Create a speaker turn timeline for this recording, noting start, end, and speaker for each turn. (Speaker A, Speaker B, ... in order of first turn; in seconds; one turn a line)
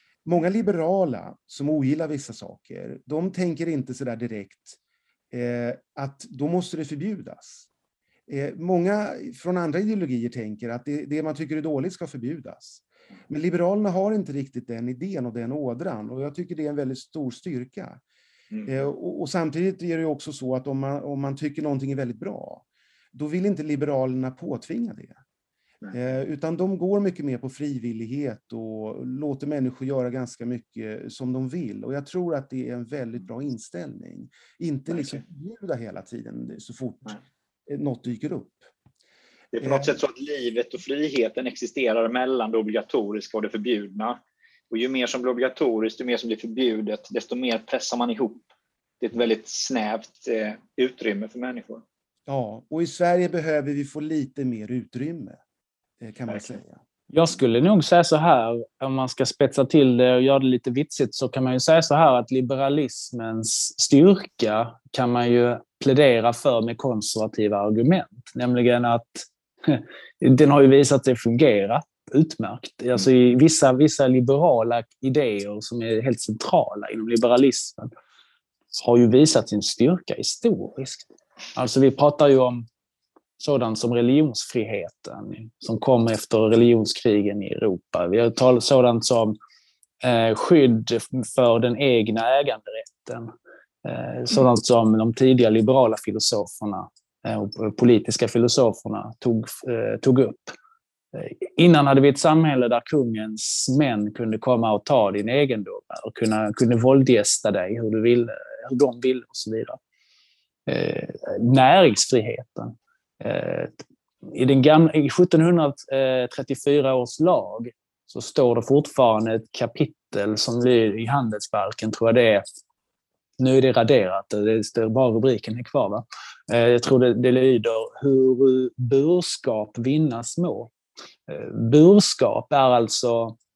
Speaker A: 0.2-4.8
Speaker A: 5.3-7.7
Speaker A: 8.3-18.0
Speaker B: 18.5-18.9
Speaker A: 18.7-25.2
Speaker A: 25.9-38.7
Speaker B: 34.9-35.2
Speaker B: 39.5-48.5
Speaker A: 39.6-39.9
Speaker B: 49.0-51.8
Speaker A: 52.3-55.4
Speaker A: 56.0-56.8
Speaker C: 57.1-77.9
Speaker C: 78.8-82.7
Speaker C: 83.4-89.4
Speaker C: 90.0-93.3
Speaker C: 93.8-100.5
Speaker C: 101.1-109.8
Speaker C: 110.7-122.5
Speaker C: 123.4-130.7
Speaker C: 131.3-133.4